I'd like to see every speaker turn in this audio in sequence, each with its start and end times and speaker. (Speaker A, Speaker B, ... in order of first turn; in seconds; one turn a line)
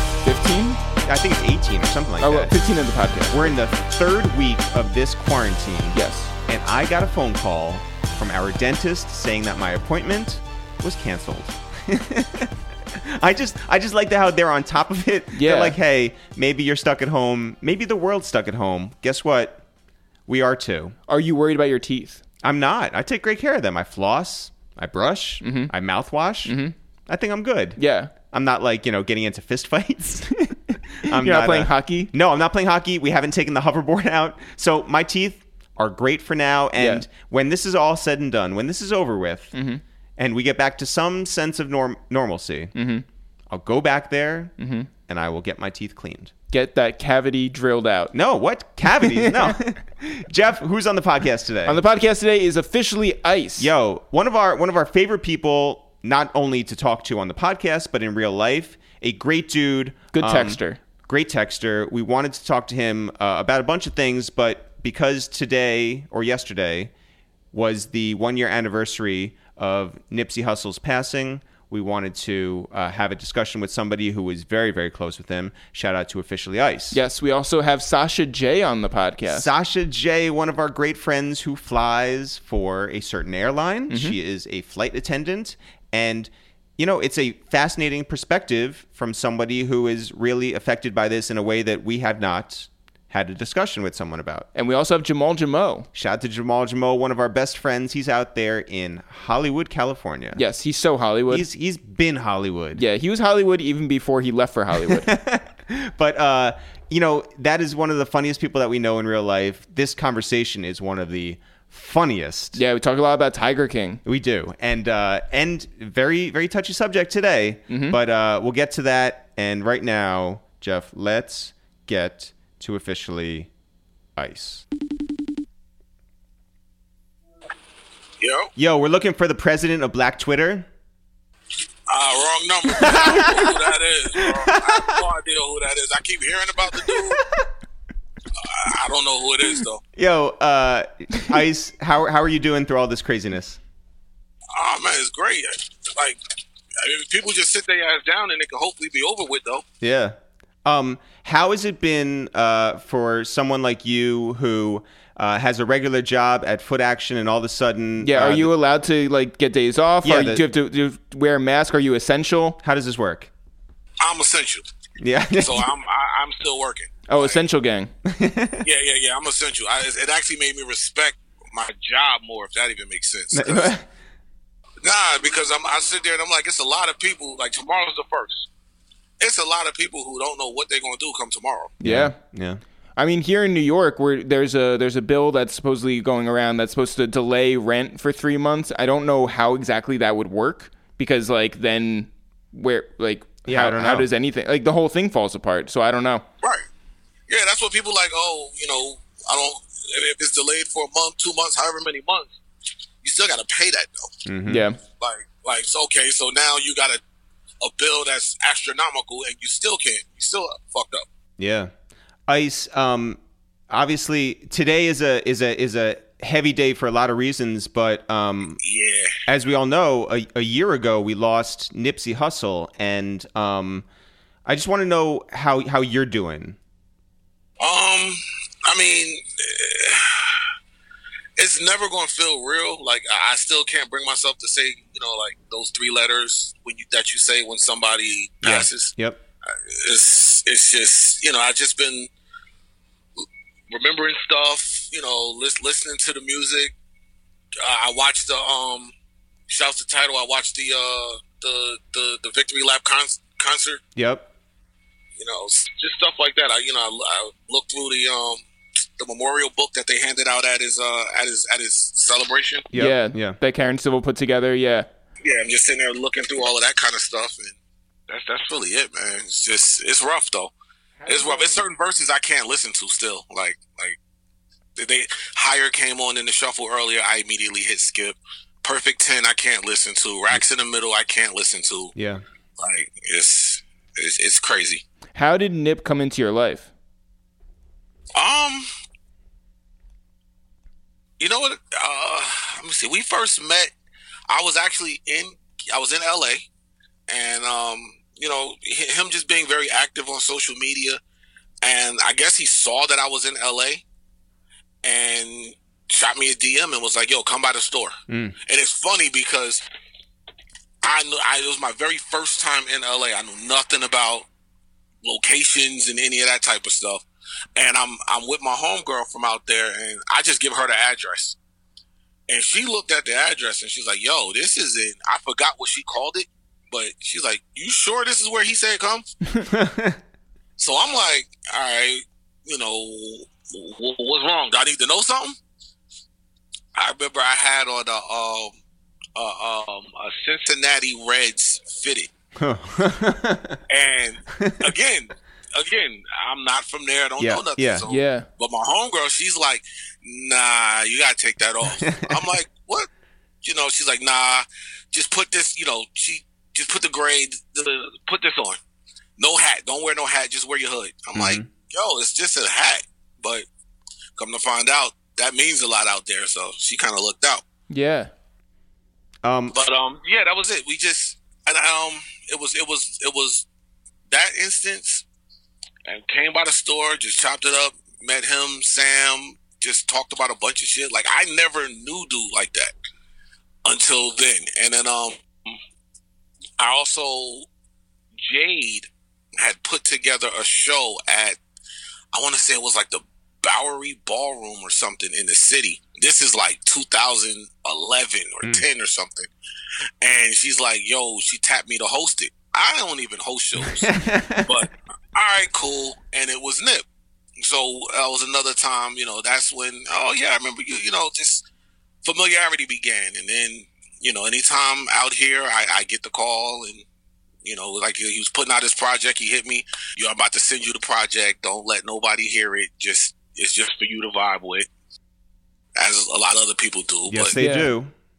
Speaker A: 0.2-0.8
Speaker B: 1.0-2.6
Speaker A: 2.2-3.5
Speaker B: 3.3-19.6
Speaker A: 5.9-6.3
Speaker A: 15.3-15.8
Speaker B: 20.3-20.9
Speaker A: 21.1-22.2
Speaker B: 22.4-26.5
Speaker A: 25.4-25.7
Speaker A: 26.4-26.7
Speaker B: 27.1-27.8
Speaker A: 27.8-28.1
Speaker B: 28.3-39.5
Speaker A: 31.1-32.1
Speaker A: 36.7-37.0
Speaker A: 39.5-39.8
Speaker B: 40.2-42.7
Speaker A: 42.7-43.0
Speaker B: 43.5-44.5
Speaker A: 44.6-44.9
Speaker B: 45.1-46.3
Speaker A: 46.5-48.1
Speaker B: 48.1-51.8
Speaker A: 48.9-49.5
Speaker A: 51.6-53.7
Speaker B: 53.6-66.9
Speaker A: 60.1-60.8
Speaker B: 67.5-77.0
Speaker A: 76.9-79.5
Speaker B: 79.3-94.5
Speaker A: 83.9-84.2
Speaker A: 94.5-95.9
Speaker B: 95.9-100.4
Speaker A: 100.3-101.5
Speaker B: 101.3-102.8
Speaker A: 102.8-105.1
Speaker B: 104.8-112.6
Speaker A: 112.5-114.0
Speaker B: 114.0-123.5
Speaker A: 117.7-118.0
Speaker B: 124.2-124.7
Speaker C: 128.2-128.5
Speaker B: 128.6-130.7
Speaker C: 131.9-137.2
Speaker B: 132.7-133.6
Speaker B: 134.2-135.0
Speaker B: 136.7-137.2
Speaker C: 138.4-139.8
Speaker B: 139.9-143.6
Speaker C: 144.5-146.2
Speaker C: 146.8-149.6
Speaker B: 149.8-158.5
Speaker A: 158.0-162.6
Speaker B: 160.0-160.4
Speaker B: 162.6-163.3
Speaker C: 164.0-164.7
Speaker B: 165.0-165.7
Speaker C: 165.3-167.4
Speaker A: 167.1-167.9
Speaker B: 168.0-168.7
Speaker C: 168.6-173.7
Speaker B: 173.3-173.9
Speaker C: 174.8-178.5
Speaker C: 179.2-181.7
Speaker A: 181.8-182.2
Speaker B: 181.8-182.6
Speaker A: 182.9-196.2
Speaker B: 193.4-194.1
Speaker C: 197.3-202.4
Speaker C: 203.0-204.1
Speaker B: 204.2-204.7
Speaker A: 204.5-204.8
Speaker C: 205.0-207.0
Speaker C: 207.6-211.1
Speaker B: 211.4-211.7
Speaker B: 212.3-213.2
Speaker B: 213.7-218.6
Speaker C: 218.6-219.2
Speaker B: 219.2-223.8
Speaker B: 224.4-226.6
Speaker C: 227.6-230.4
Speaker C: 231.4-238.9
Speaker B: 238.4-239.2
Speaker C: 239.5-242.1
Speaker C: 243.7-246.7
Speaker C: 247.6-248.9
Speaker C: 249.5-253.8
Speaker B: 253.9-254.3
Speaker C: 255.2-258.4
Speaker C: 259.0-262.7
Speaker B: 262.7-263.4
Speaker A: 262.7-264.9
Speaker C: 265.2-267.6
Speaker C: 268.1-270.5
Speaker C: 271.0-274.0
Speaker C: 274.8-281.9
Speaker B: 281.9-282.2
Speaker C: 282.6-284.8
Speaker A: 285.1-286.7
Speaker C: 288.1-288.7
Speaker C: 291.2-293.7
Speaker C: 294.3-296.5
Speaker C: 297.1-301.0
Speaker C: 301.6-303.8
Speaker C: 304.8-307.9
Speaker B: 308.1-308.4
Speaker C: 308.4-309.6
Speaker C: 310.8-314.3
Speaker C: 315.0-317.0
Speaker C: 317.6-321.4
Speaker C: 322.3-329.1
Speaker B: 329.4-330.0
Speaker C: 330.6-335.4
Speaker C: 336.7-338.6
Speaker C: 339.1-342.1
Speaker B: 342.4-343.6
Speaker C: 343.7-352.9
Speaker B: 344.3-344.7
Speaker B: 347.2-347.9
Speaker A: 347.9-348.3
Speaker B: 351.6-352.3
Speaker C: 353.4-358.6
Speaker C: 359.2-363.4
Speaker B: 361.1-361.5
Speaker C: 364.2-367.4
Speaker A: 367.7-368.1
Speaker B: 369.2-369.6
Speaker C: 369.5-373.4
Speaker C: 374.1-375.0
Speaker C: 375.9-382.7
Speaker C: 383.6-385.1
Speaker C: 386.6-387.5
Speaker C: 388.2-391.4
Speaker C: 392.1-399.3
Speaker C: 400.0-406.8
Speaker B: 403.6-404.6
Speaker C: 407.4-411.4
Speaker C: 412.0-416.8
Speaker C: 417.4-424.7
Speaker C: 425.8-427.3
Speaker B: 427.1-427.9
Speaker A: 427.4-427.7